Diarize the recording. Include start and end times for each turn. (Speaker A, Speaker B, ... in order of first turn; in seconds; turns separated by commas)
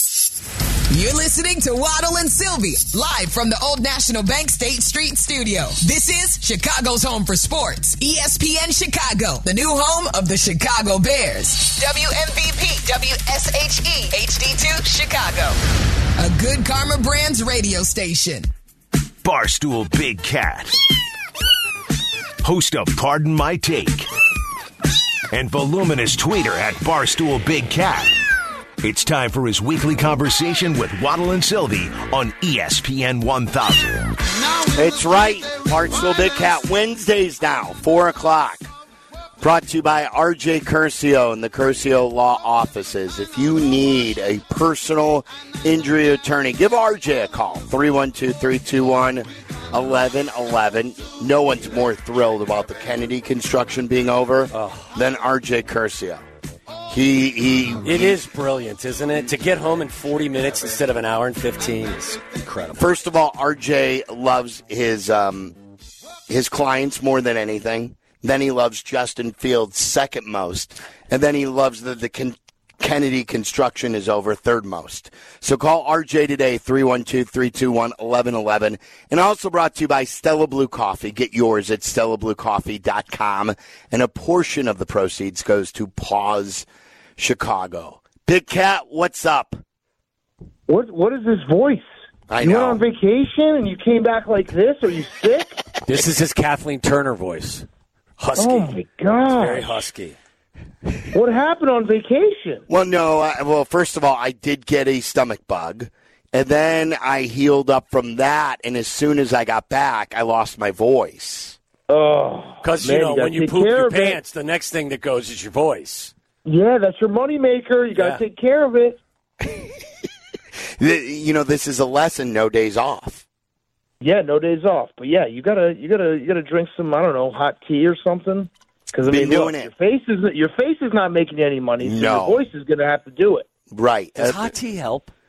Speaker A: 0.9-15.6, Speaker A: 16.2-18.5, Speaker B: 19.2-20.8, Speaker B: 22.4-24.1, Speaker B: 25.3-28.2, Speaker B: 28.8-34.1, Speaker C: 34.7-38.7, Speaker C: 39.4-56.2, Speaker D: 54.5-54.9, Speaker C: 56.9-58.2, Speaker D: 57.8-62.9, Speaker C: 62.8-65.5, Speaker C: 66.3-86.7, Speaker C: 87.2-89.6, Speaker E: 90.7-91.9, Speaker C: 92.3-92.8, Speaker E: 92.4-95.6, Speaker D: 95.9-97.7, Speaker D: 98.2-98.8, Speaker E: 98.4-99.8, Speaker D: 99.3-100.2, Speaker E: 101.1-102.7, Speaker C: 102.7-111.6, Speaker E: 111.9-114.2, Speaker D: 112.6-116.1, Speaker E: 116.5-119.0, Speaker D: 118.0-118.2, Speaker C: 119.4-119.8, Speaker C: 120.8-123.2, Speaker E: 124.0-133.5, Speaker C: 129.1-129.7, Speaker C: 131.8-132.4, Speaker C: 133.7-134.5, Speaker D: 134.2-135.1